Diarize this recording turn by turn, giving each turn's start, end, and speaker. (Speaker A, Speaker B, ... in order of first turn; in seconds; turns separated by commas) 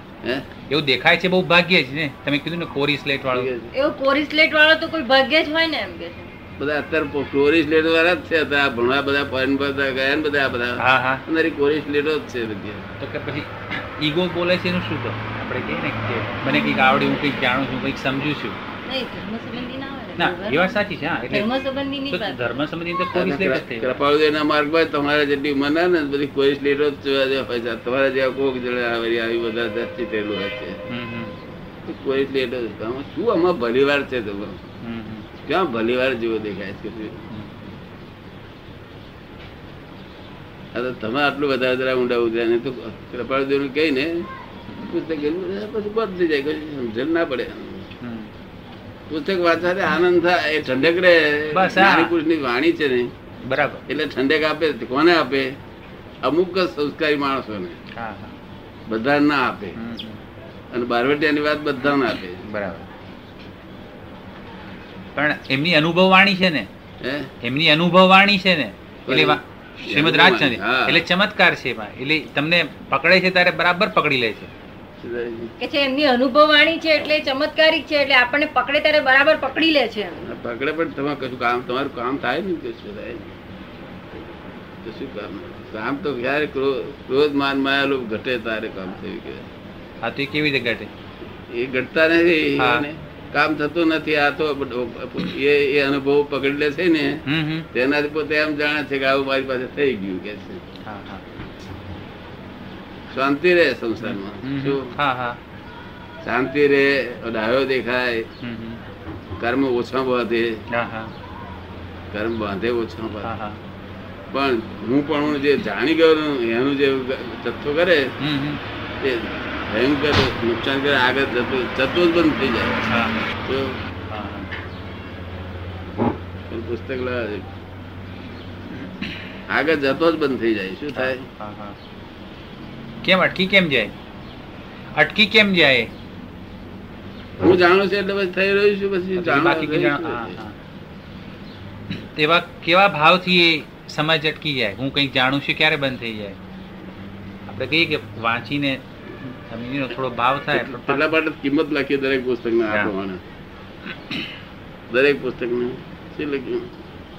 Speaker A: 0.7-3.5, Speaker B: 3.3-3.7, Speaker C: 3.7-6.3, Speaker B: 6.6-12.8, Speaker A: 10.8-11.2, Speaker A: 13.0-18.6, Speaker C: 18.8-20.8, Speaker A: 20.2-21.5, Speaker C: 21.3-22.4, Speaker A: 22.1-24.0, Speaker B: 23.1-30.8, Speaker A: 30.9-31.3, Speaker B: 31.9-34.6, Speaker A: 34.8-35.3, Speaker B: 35.4-37.2, Speaker A: 37.3-37.7, Speaker B: 40.7-44.3, Speaker A: 44.7-45.0, Speaker B: 44.8-47.9, Speaker A: 48.0-48.3, Speaker B: 49.1-53.1, Speaker A: 51.5-52.1, Speaker A: 53.4-53.8, Speaker B: 53.9-55.5, Speaker B: 56.2-57.8, Speaker A: 57.9-58.4, Speaker B: 58.9-59.8, Speaker A: 59.8-60.2, Speaker B: 60.7-62.4, Speaker A: 61.8-62.9, Speaker A: 65.2-66.7, Speaker B: 67.0-67.3, Speaker A: 67.4-74.5, Speaker B: 69.0-71.0, Speaker B: 75.0-75.5, Speaker C: 75.6-80.2, Speaker B: 80.2-83.3, Speaker B: 84.8-89.5, Speaker A: 90.0-90.9, Speaker B: 91.5-100.6, Speaker A: 92.6-92.8, Speaker A: 97.2-97.7, Speaker A: 100.8-101.2, Speaker B: 103.1-104.9, Speaker A: 104.0-105.4, Speaker B: 106.2-108.3, Speaker A: 108.4-108.8, Speaker B: 109.4-110.6, Speaker A: 110.7-111.1, Speaker B: 112.1-113.3, Speaker A: 113.2-113.6, Speaker B: 114.3-118.1, Speaker A: 118.2-118.6, Speaker B: 119.0-122.8, Speaker A: 122.9-123.3, Speaker B: 123.4-123.8, Speaker A: 124.1-124.5, Speaker B: 126.5-127.5, Speaker B: 129.5-131.2, Speaker A: 130.9-131.8, Speaker A: 133.0-133.9, Speaker A: 134.9-135.9, Speaker B: 137.4-140.4, Speaker A: 139.1-140.6, Speaker A: 141.9-146.4, Speaker A: 147.5-151.1, Speaker B: 150.5-153.2, Speaker B: 154.9-156.8